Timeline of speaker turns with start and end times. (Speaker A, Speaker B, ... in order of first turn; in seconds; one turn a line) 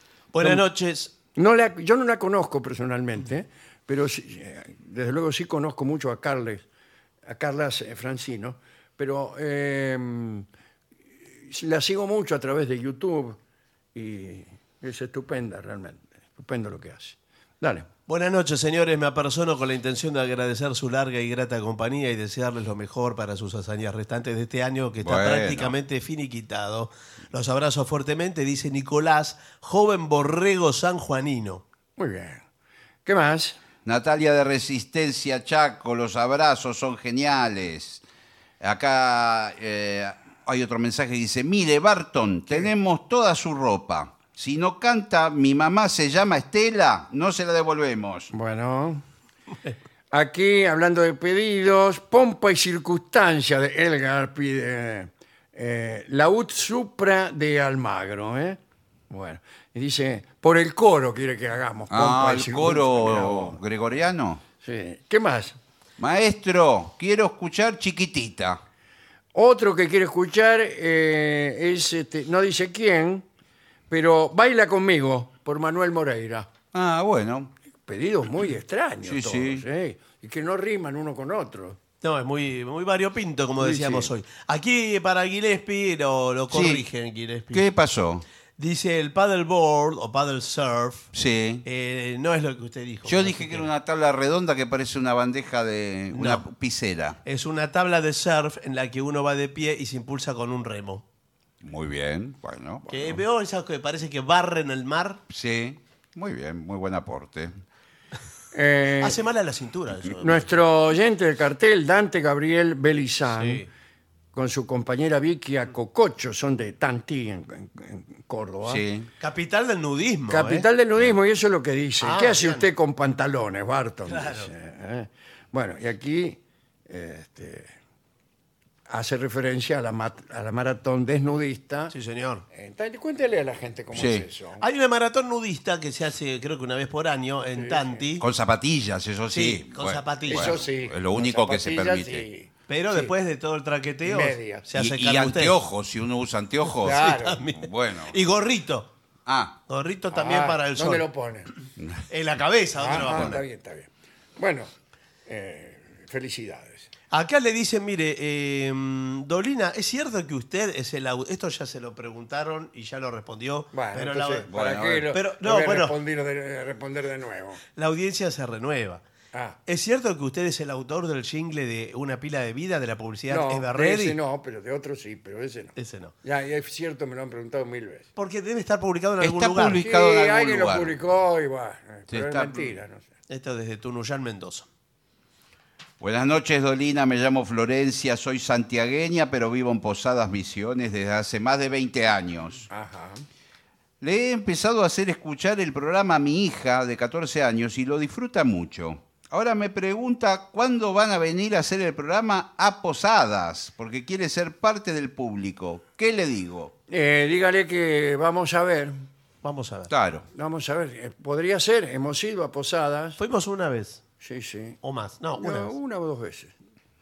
Speaker A: 0.3-1.1
Speaker B: 1.3-6.6
Speaker B: 7.2-10.4
Speaker B: 11.4-13.4
Speaker B: 13.9-17.9
Speaker A: 18.1-31.6
Speaker C: 25.0-25.7
Speaker B: 32.0-32.4
Speaker B: 33.0-33.6
Speaker C: 33.9-38.0
Speaker C: 38.6-48.3
Speaker B: 48.3-49.0
Speaker B: 50.1-58.6
Speaker B: 59.1-63.6
Speaker C: 61.9-64.4
Speaker B: 64.6-65.6
Speaker C: 66.0-68.6
Speaker B: 69.3-73.2
Speaker B: 73.9-76.5
Speaker C: 76.7-77.5
Speaker B: 77.8-81.8
Speaker C: 79.0-79.6
Speaker A: 82.0-87.7
Speaker B: 83.6-84.1
Speaker C: 86.5-86.8
Speaker C: 87.5-88.2
Speaker A: 88.6-91.1
Speaker C: 91.1-91.6
Speaker A: 91.6-93.7
Speaker C: 93.0-97.2
Speaker A: 96.1-96.4
Speaker A: 97.2-101.0
Speaker C: 101.6-103.2
Speaker A: 102.9-105.2
Speaker C: 105.3-107.6
Speaker B: 108.5-109.2
Speaker A: 109.0-110.5
Speaker B: 110.2-113.7
Speaker A: 113.3-113.7
Speaker B: 114.3-118.8
Speaker C: 118.6-119.1
Speaker A: 119.2-120.7
Speaker B: 120.3-127.7
Speaker A: 122.0-122.7
Speaker A: 124.0-124.5
Speaker B: 128.9-131.9
Speaker A: 131.9-132.4
Speaker B: 132.5-134.6
Speaker C: 133.9-134.2
Speaker A: 134.6-138.2
Speaker B: 137.6-138.0
Speaker C: 138.2-142.2
Speaker A: 139.3-140.7
Speaker B: 140.3-143.1
Speaker A: 142.7-145.6
Speaker B: 144.0-144.7
Speaker C: 144.7-148.2
Speaker A: 146.8-148.9
Speaker B: 146.8-147.4
Speaker C: 149.2-149.6
Speaker A: 149.7-151.0
Speaker B: 150.1-151.5
Speaker A: 152.1-153.4
Speaker B: 152.8-154.7
Speaker C: 153.1-153.3
Speaker B: 155.3-156.9
Speaker A: 157.1-164.5
Speaker B: 163.7-167.6
Speaker C: 164.5-165.1
Speaker A: 165.1-165.9
Speaker A: 167.8-169.0
Speaker B: 169.3-169.6
Speaker A: 169.7-174.2
Speaker B: 173.3-178.1
Speaker A: 175.8-176.1
Speaker A: 178.2-179.8
Speaker C: 179.2-180.9
Speaker B: 179.7-183.1
Speaker C: 182.1-182.7
Speaker A: 183.3-184.7
Speaker C: 186.0-192.7
Speaker B: 192.7-193.2
Speaker C: 194.0-206.7
Speaker B: 206.9-209.0
Speaker A: 209.4-209.9
Speaker C: 209.9-210.2
Speaker B: 210.3-213.2
Speaker A: 213.2-214.0
Speaker B: 214.2-214.8
Speaker A: 214.8-215.7
Speaker B: 215.4-216.5